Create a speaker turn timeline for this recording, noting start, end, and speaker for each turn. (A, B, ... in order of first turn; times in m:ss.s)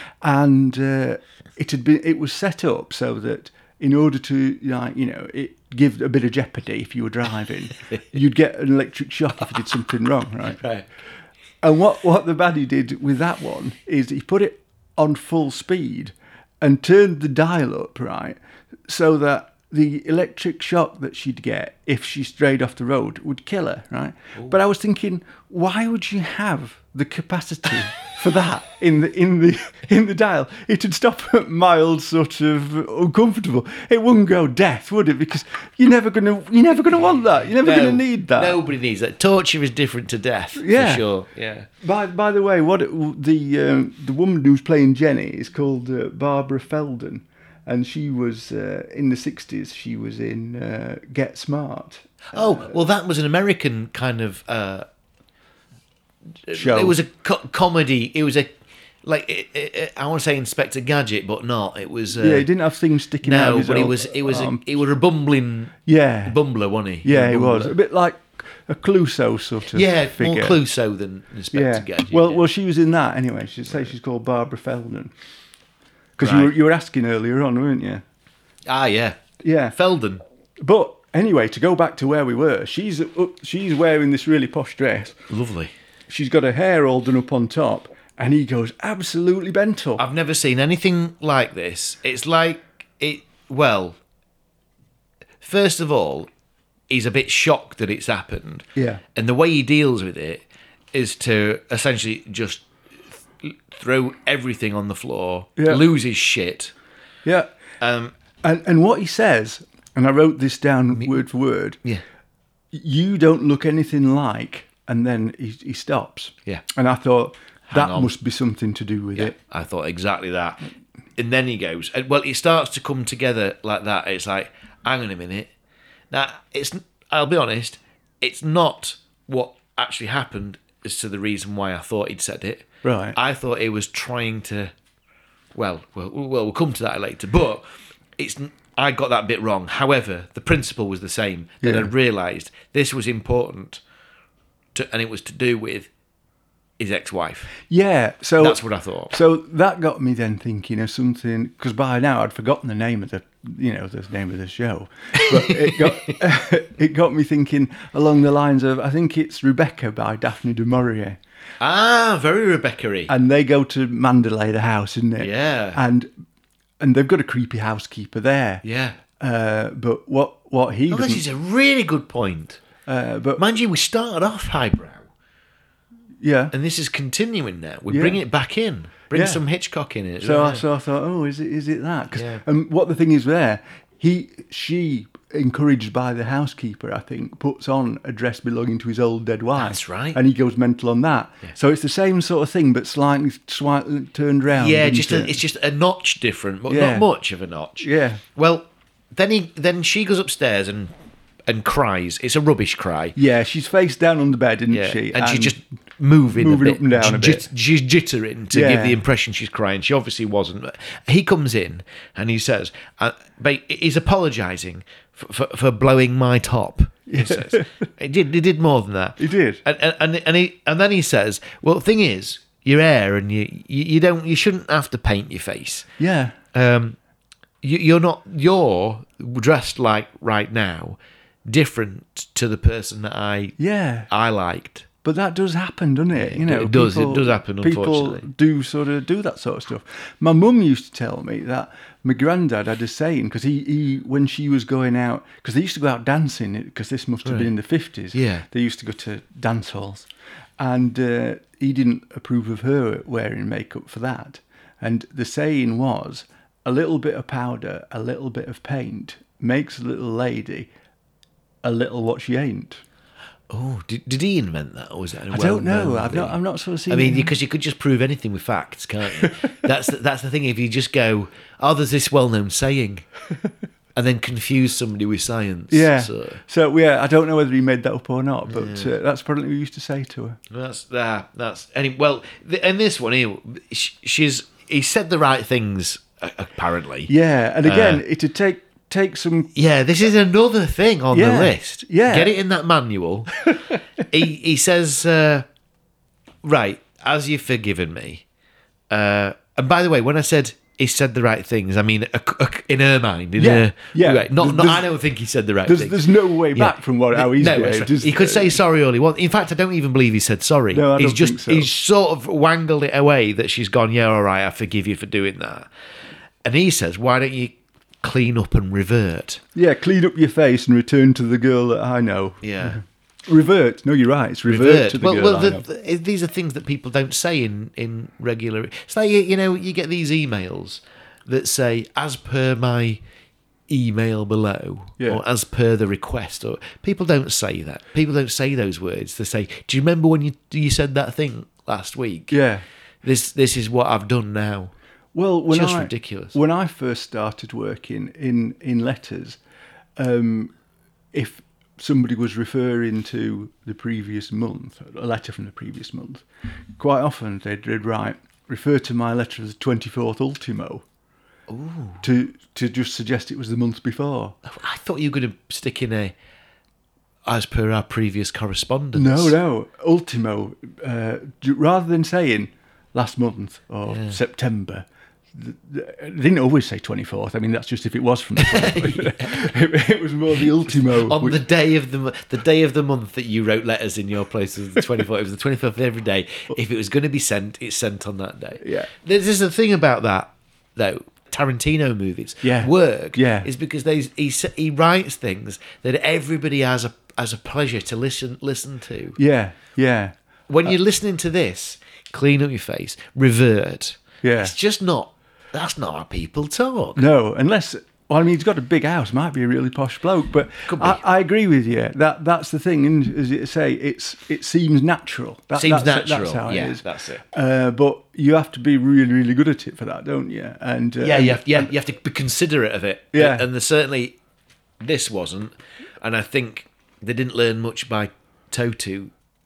0:00.2-0:10.6 A
0:10.5-0:10.8 B
0:11.6-0:38.6 A
0:37.6-0:41.7 B
0:40.6-0:41.0 A
0:41.8-0:52.7 A
0:52.3-0:54.9 B
0:56.5-0:58.5 B
0:56.5-0:57.0 A
0:59.0-1:02.5 B
1:02.2-1:04.7 A
1:03.2-1:07.7 B
1:05.9-1:06.4 A
1:07.0-1:10.6 A
1:09.7-1:12.4 B
1:11.5-1:15.1 A
1:16.2-1:18.0 A
1:16.2-1:16.5 B
1:18.7-1:19.2 B
1:19.4-1:19.8 A
1:19.7-1:20.2 B
1:20.6-1:25.2 A
1:25.3-1:25.7 B
1:26.1-1:30.0 A
1:30.0-1:34.0 B
1:35.4-1:36.3 B
1:36.9-1:40.4 B
1:38.8-1:39.0 A
1:40.9-1:42.6 B
1:43.4-1:46.7 B
1:45.6-1:45.8 A
1:47.2-1:47.5 A
1:47.8-1:48.1 B
1:48.4-1:51.8 A
1:51.0-1:51.2 B
1:52.7-1:59.4 A
1:57.7-1:58.1 B
1:59.2-2:00.6 B
2:01.2-2:05.5 B
2:06.1-2:14.7 B
2:12.8-2:13.2 A
2:15.6-2:17.6 B
2:18.2-2:23.8 B
2:21.6-2:21.9 A
2:24.8-2:25.9 B
2:26.8-2:27.6 B
2:27.7-2:41.2 A
2:28.4-2:29.1 B
2:35.2-2:36.1 B
2:41.6-2:43.1 B
2:43.1-2:46.1 A
2:45.2-2:45.8 B
2:46.8-2:48.6 A
2:48.6-2:49.0 B
2:49.2-2:51.2 A
2:50.9-2:52.6 B
2:52.9-2:53.4 A
2:53.4-2:55.0 B
2:56.2-2:56.5 A
2:56.5-3:00.6 B
2:57.9-2:58.2 A
2:59.1-2:59.4 A
3:00.2-3:15.4 A
3:02.1-3:02.4 B
3:09.6-3:10.2 B
3:14.5-3:20.9 B
3:16.7-3:17.1 A
3:17.8-3:18.2 A
3:21.5-3:23.2 B
3:23.2-3:25.6 A
3:24.7-3:45.9 B
3:26.3-3:27.5 A
3:28.5-3:29.0 A
3:37.1-3:37.7 A
3:39.2-3:39.6 A
3:46.0-3:46.4 A
3:46.5-3:47.0 B
3:47.6-3:53.6 B
3:53.6-3:54.1 A
3:54.1-3:54.9 B
3:55.0-4:10.1 A
3:56.1-3:58.2 B
4:07.2-4:07.5 B
4:08.1-4:08.4 B
4:10.6-4:20.7 A
4:21.6-4:22.8 A
4:23.5-4:26.4 B
4:25.3-4:27.3 A
4:26.9-4:33.1 B
4:34.0-4:36.4 B
4:35.7-4:40.4 A
4:38.5-4:38.9 B
4:40.5-4:47.1 B
4:47.1-4:49.5 A
4:47.6-4:48.0 B
4:49.6-4:53.5 B
4:51.1-4:52.3 A
4:54.1-4:55.4 B
4:56.4-4:58.2 B
4:58.9-5:15.7 B
5:03.4-5:04.9 A
5:05.6-5:08.6 A
5:10.7-5:11.7 A
5:16.4-5:19.4 B
5:19.6-5:25.6 A
5:22.4-5:22.8 B
5:24.5-5:33.0 B
5:33.7-5:42.4 B
5:42.3-5:42.6 A
5:43.0-5:44.7 B
5:45.1-5:49.4 A
5:45.5-5:46.4 B
5:50.0-5:50.5 A
5:51.1-5:56.2 A
5:56.8-6:00.8 A
6:01.5-6:02.0 B
6:02.0-6:04.4 A
6:04.5-6:06.1 B
6:07.2-6:09.4 B
6:08.9-6:21.4 A
6:13.9-6:14.2 B
6:18.4-6:19.5 B
6:20.3-6:39.2 B
6:28.6-6:28.9 A
6:32.4-6:33.5 A
6:39.2-6:40.1 A
6:40.5-6:47.0 B
6:44.2-6:44.6 A
6:47.0-7:01.7 A
6:50.7-6:51.0 B
6:55.6-6:57.2 B
7:01.0-7:04.2 B
7:03.1-7:03.4 A
7:04.8-7:09.1 B